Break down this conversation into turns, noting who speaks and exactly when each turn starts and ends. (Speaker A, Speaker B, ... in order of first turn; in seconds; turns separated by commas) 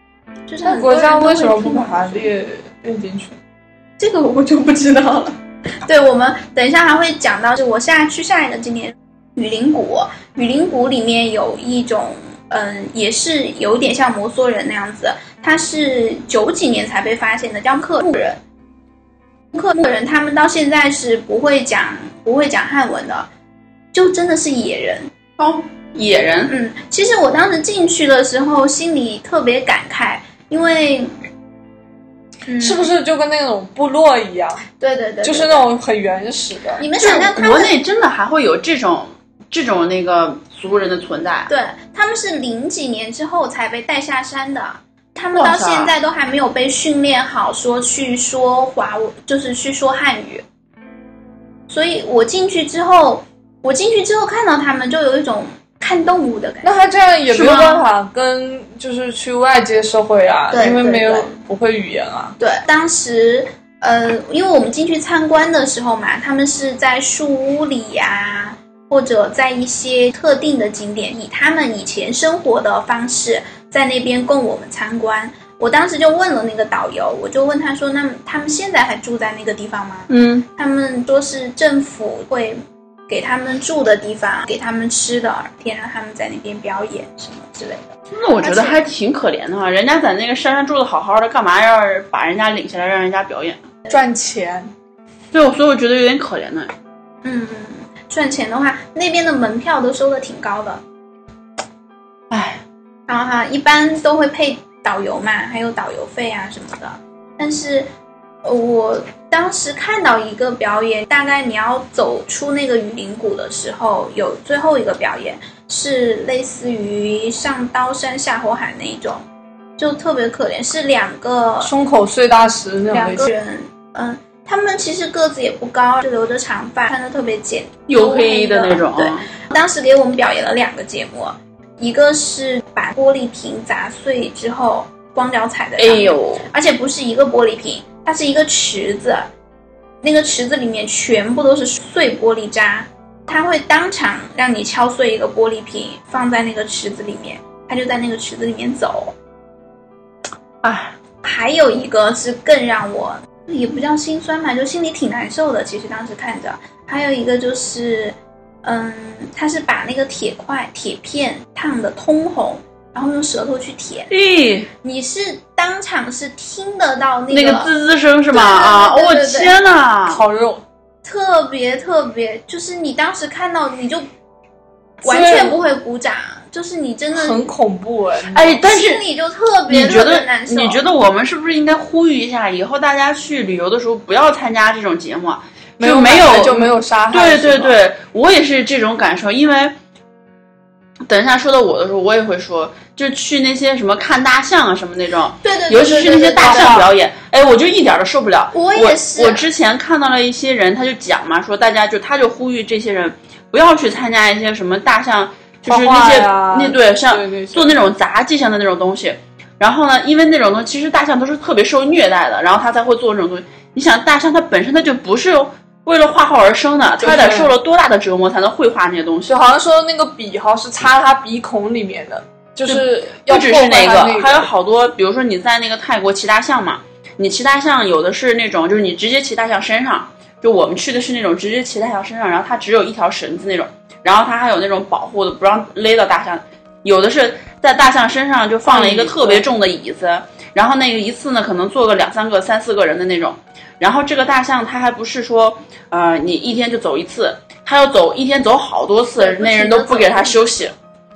Speaker A: 0.5-2.3, Speaker B: 0.6-3.4, Speaker A: 4.0-5.3, Speaker A: 5.8-18.4, Speaker A: 19.5-23.3, Speaker A: 23.9-25.1, Speaker C: 25.4-26.5, Speaker A: 26.5-31.1, Speaker A: 32.5-32.9, Speaker B: 32.6-34.6, Speaker A: 34.8-35.7, Speaker B: 35.2-36.8, Speaker A: 36.8-37.7, Speaker C: 37.0-41.5, Speaker A: 41.5-50.4, Speaker C: 45.3-45.9, Speaker A: 51.7-56.7, Speaker B: 56.6-62.4, Speaker C: 57.3-57.8, Speaker A: 60.5-61.3, Speaker A: 62.4-88.8, Speaker C: 80.1-80.5, Speaker C: 88.1-93.7, Speaker B: 93.9-94.7, Speaker C: 95.3-96.7, Speaker A: 97.2-100.8, Speaker C: 102.3-102.6, Speaker A: 103.1-107.9, Speaker A: 108.4-119.2, Speaker A: 119.8-121.7, Speaker B: 121.6-123.3, Speaker A: 122.9-139.3, Speaker C: 127.9-129.2, Speaker C: 135.8-136.4, Speaker A: 140.0-149.1, Speaker C: 150.6-150.9, Speaker A: 151.2-164.1, Speaker C: 164.1-164.7, Speaker A: 164.8-167.7, Speaker C: 167.3-170.2, Speaker A: 168.3-169.5, Speaker B: 170.1-170.6, Speaker A: 171.0-174.1, Speaker A: 175.0-177.5, Speaker B: 175.0-175.6, Speaker B: 177.1-178.6, Speaker C: 178.3-179.0, Speaker A: 178.6-180.8, Speaker C: 179.7-189.7, Speaker B: 185.8-187.8, Speaker C: 191.1-219.3, Speaker A: 195.4-196.7, Speaker B: 196.4-196.9, Speaker A: 198.5-199.4, Speaker B: 205.7-207.8, Speaker B: 217.0-217.5, Speaker B: 219.3-224.5, Speaker C: 222.7-250.7, Speaker B: 238.7-239.5, Speaker A: 249.2-250.4